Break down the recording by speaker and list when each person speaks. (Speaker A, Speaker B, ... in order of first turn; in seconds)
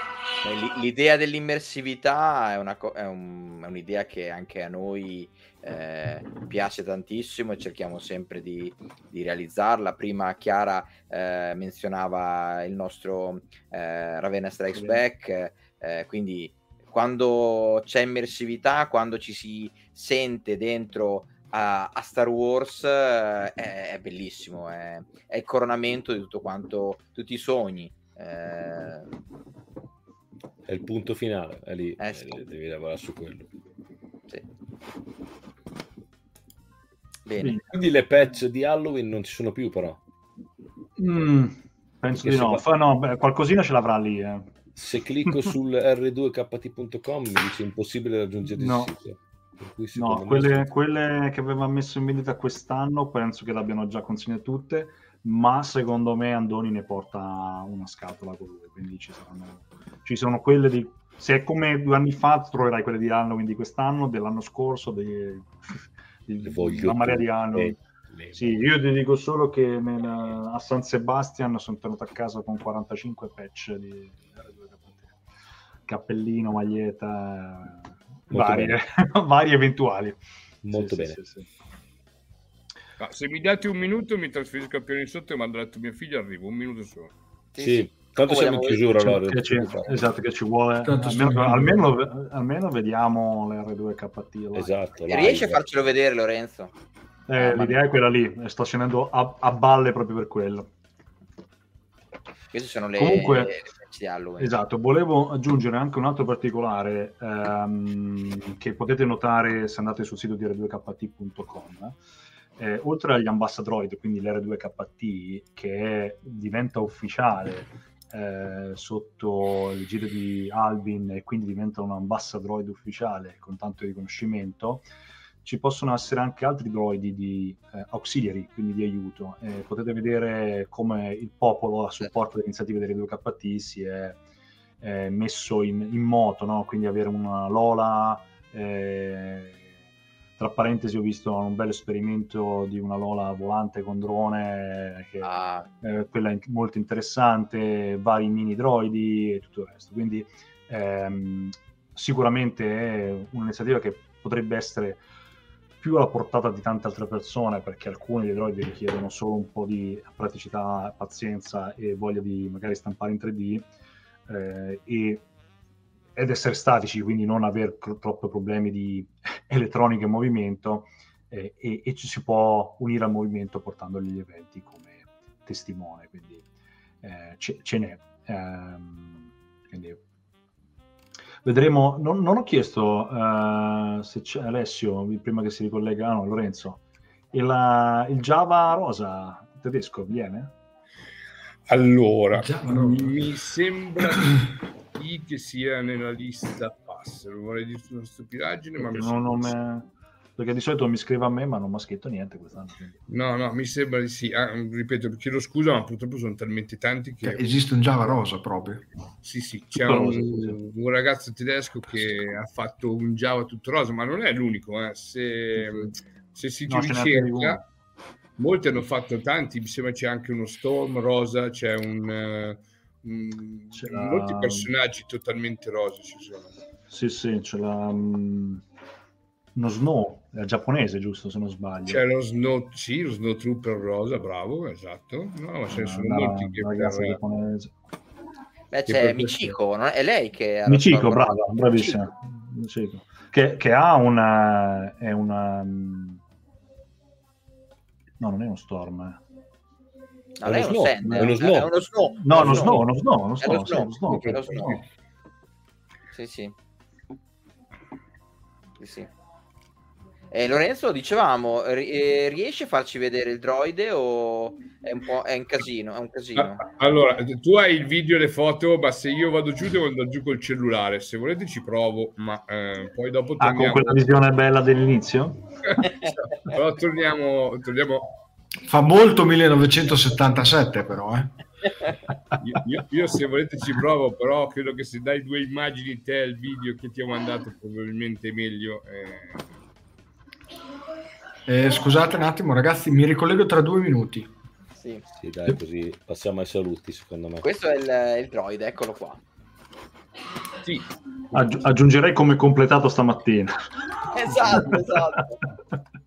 Speaker A: 0.4-29.1, 32.0-32.4, 37.3-37.6, 87.5-89.0, 95.1-96.7, 97.4-97.8, 102.5-104.6, 145.2-145.7, 238.7-241.4, 250.4-252.8, 253.4-254.8, 256.1-256.5, 258.8-259.1, 260.3-266.6, 294.8-295.0, 297.4-299.2, 304.1-305.4
Speaker B: 30.7-33.5, 37.7-40.0, 42.2-42.6, 44.8-50.7, 66.4-68.6, 78.3-78.8, 80.6-81.2, 87.6-90.0, 94.5-95.6, 250.4-251.7, 252.3-252.6, 295.2-297.5
Speaker C: 37.4-37.8, 41.0-44.5, 45.3-45.5, 48.6-48.9, 49.9-67.8, 68.3-75.2, 75.9-80.2, 80.7-81.5, 89.0-94.7, 97.3-100.7, 103.0-103.6, 104.4-112.0, 112.6-124.8, 125.4-134.2, 134.8-139.6, 140.4-155.0, 155.8-163.7, 164.3-165.3, 166.2-176.5, 177.0-180.0, 181.4-190.6, 198.8-203.0, 209.7-210.6, 216.7-217.6, 223.7-224.7, 226.9-228.6, 229.6-232.0, 235.7-237.7, 240.7-246.2, 248.2-249.2, 251.0-251.3, 252.2-254.8, 273.4-275.4, 301.3-303.5, 304.3-305.0
Speaker D: 83.0-87.1, 191.7-199.5, 203.1-207.5, 209.2-217.6, 218.4-226.6, 231.9-237.2, 238.9-239.5, 266.4-274.1, 275.7-278.1, 282.4-289.4, 300.6-301.4
Speaker E: 90.8-91.8, 192.3-193.2, 207.2-208.8, 278.7-281.4, 291.5-294.3